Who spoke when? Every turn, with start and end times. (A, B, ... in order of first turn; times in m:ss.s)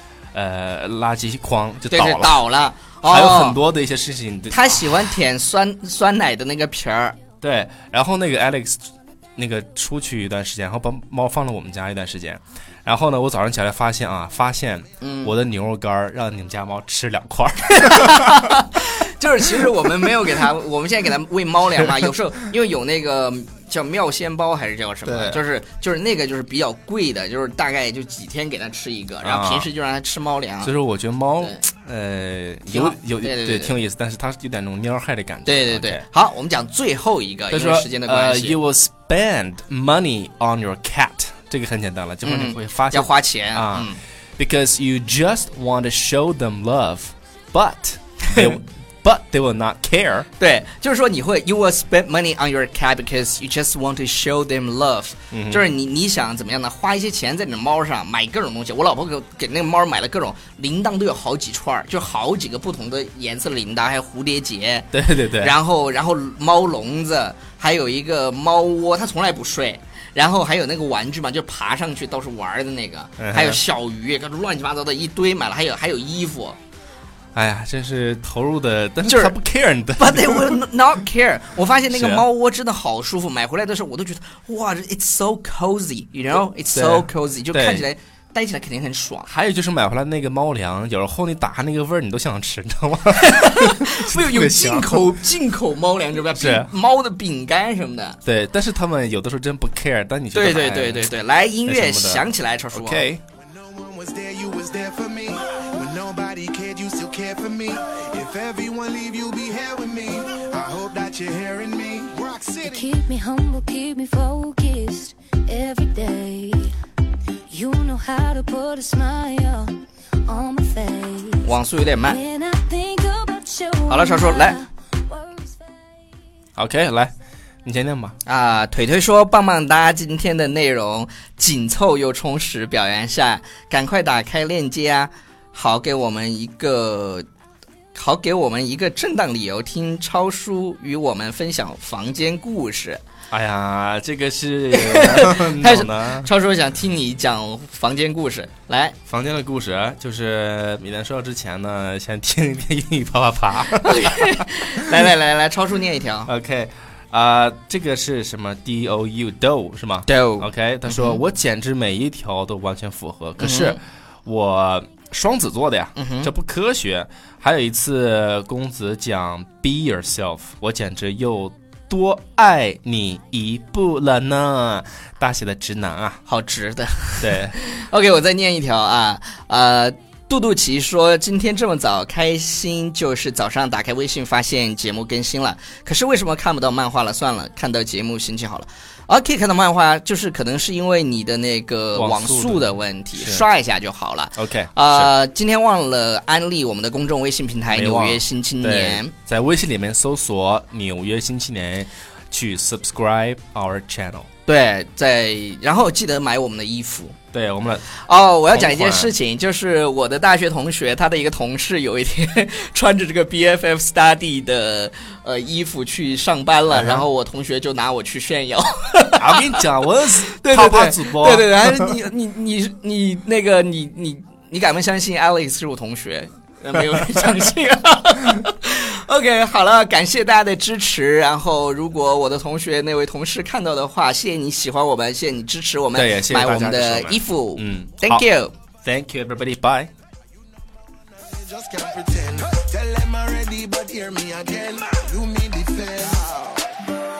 0:00.3-0:02.4 A
0:01.9-0:03.6 B
0:03.0-0:04.8 A
0:04.5-0:07.2 B
0:07.4-0:18.4 A
0:15.0-0:15.3 B
0:17.7-0:30.7 B
0:25.0-0:25.4 A
0:29.2-0:29.7 A
0:30.6-0:36.0 A
0:32.7-0:33.8 B
0:35.4-0:38.6 B
0:37.5-0:50.2 A
0:42.2-0:44.0 B
0:50.4-1:16.6 B
0:55.3-0:55.7 A
1:04.9-1:05.5 A
1:13.2-1:13.6 A
1:17.3-1:20.6 A
1:19.0-1:19.4 B
1:20.0-1:29.3 B
1:21.9-1:22.2 A
1:26.7-1:27.9 A
1:29.2-1:35.1 A
1:33.1-1:38.2 B
1:36.3-1:36.7 A
1:38.2-1:41.1 A
1:40.3-1:43.1 B
1:41.6-1:43.2 A
1:43.4-1:52.9 C
1:52.6-1:56.8 D
1:57.5-2:01.5 D
2:01.4-2:02.2 B
2:02.1-2:05.6 D
2:03.9-2:04.6 B
2:06.6-2:07.1 A
2:07.6-2:08.2 A
2:08.2-2:17.2 B
2:17.9-2:23.0 B
2:23.3-2:26.3 A
2:24.7-2:29.0 B
2:29.1-2:34.4 A
2:33.8-2:36.3 B
2:36.2-2:56.2 A
2:40.0-2:41.2 B
2:43.4-2:43.8 B
2:46.0-2:46.3 B
2:56.2-3:19.1 B
2:57.2-2:57.6 A
3:11.9-3:13.4 A
3:14.4-3:15.1 A
3:17.7-3:24.3 A
3:24.5-3:27.2 B
3:27.3-3:28.0 A
3:28.0-3:39.6 B
3:28.5-3:29.1 A
3:36.7-3:37.0 A
3:39.2-3:41.9 A
3:40.3-3:58.5 B
3:55.9-3:58.2 A
3:58.8-3:59.9 A
4:01.3-4:06.6 C